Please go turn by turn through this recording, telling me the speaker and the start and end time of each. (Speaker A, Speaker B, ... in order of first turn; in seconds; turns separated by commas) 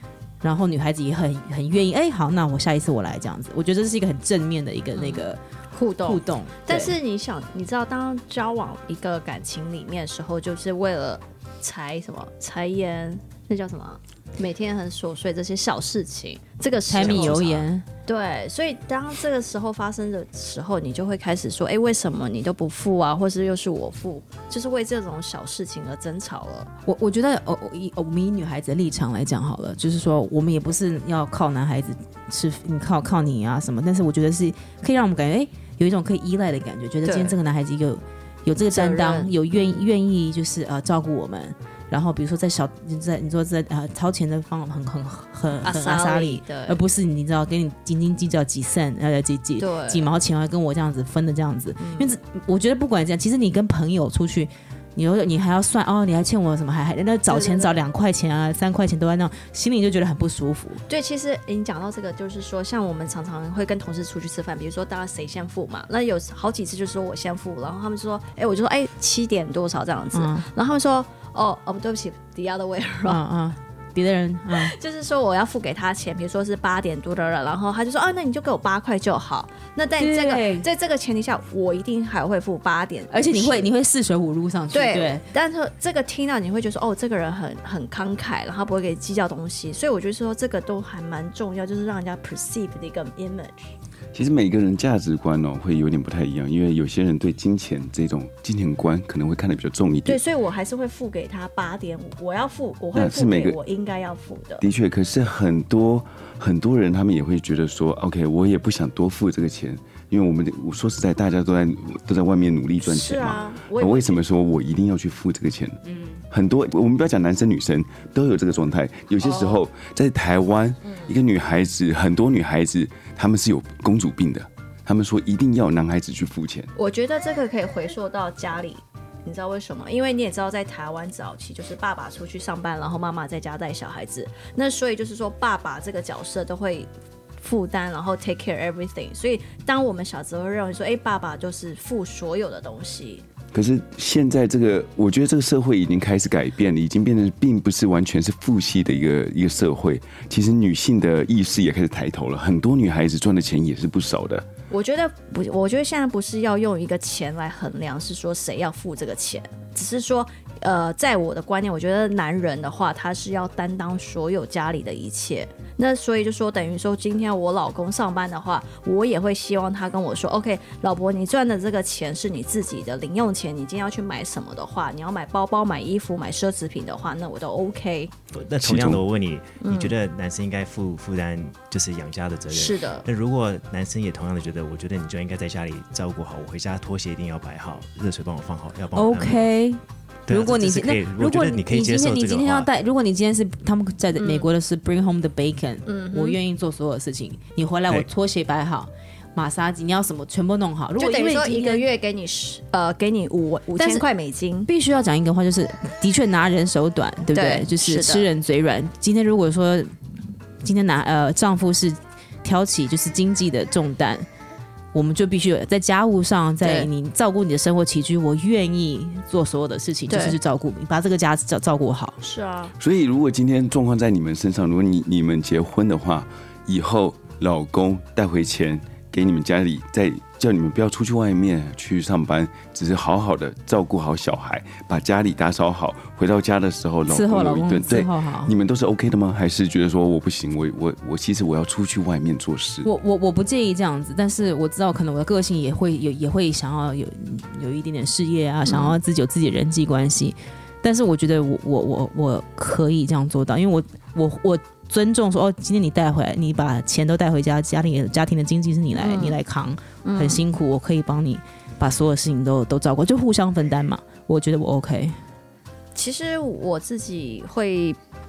Speaker A: 0.4-5.4, Speaker B: 5.0-26.7, Speaker A: 6.0-7.0, Speaker A: 16.9-17.8, Speaker C: 17.0-17.5, Speaker A: 26.9-60.8, Speaker B: 37.0-37.4, Speaker B: 38.7-39.4, Speaker B: 45.6-46.8, Speaker B: 49.6-50.1, Speaker B: 51.8-52.1, Speaker B: 57.3-57.8, Speaker B: 60.9-73.2, Speaker A: 70.1-70.5, Speaker A: 73.1-74.8, Speaker B: 74.5-83.7, Speaker A: 80.0-80.7, Speaker A: 83.1-85.2, Speaker B: 84.7-93.7, Speaker D: 94.1-100.2, Speaker B: 100.0-104.7, Speaker D: 102.9-103.6, Speaker D: 104.6-126.7, Speaker B: 112.8-114.2, Speaker A: 115.9-116.2, Speaker B: 119.2-119.6, Speaker B: 120.9-121.1, Speaker B: 126.8-143.2, Speaker D: 143.5-154.5, Speaker B: 154.7-178.1, Speaker C: 178.3-189.5, Speaker D: 178.6-179.0, Speaker B: 179.6-179.9, Speaker B: 182.5-183.1, Speaker A: 188.9-201.9, Speaker C: 190.3-192.7, Speaker B: 194.2-194.5, Speaker B: 195.9-196.4, Speaker B: 201.0-204.7, Speaker A: 203.8-204.1, Speaker A: 204.7-209.9, Speaker B: 207.3-208.3, Speaker A: 210.6-214.3, Speaker A: 214.9-222.2, Speaker B: 216.6-216.9, Speaker B: 220.1-220.4, Speaker B: 222.2-222.7, Speaker D: 222.8-242.9, Speaker A: 237.1-238.5, Speaker A: 242.8-265.2, Speaker B: 248.7-249.0, Speaker B: 258.9-259.4, Speaker B: 260.0-260.4, Speaker B: 265.9-268.0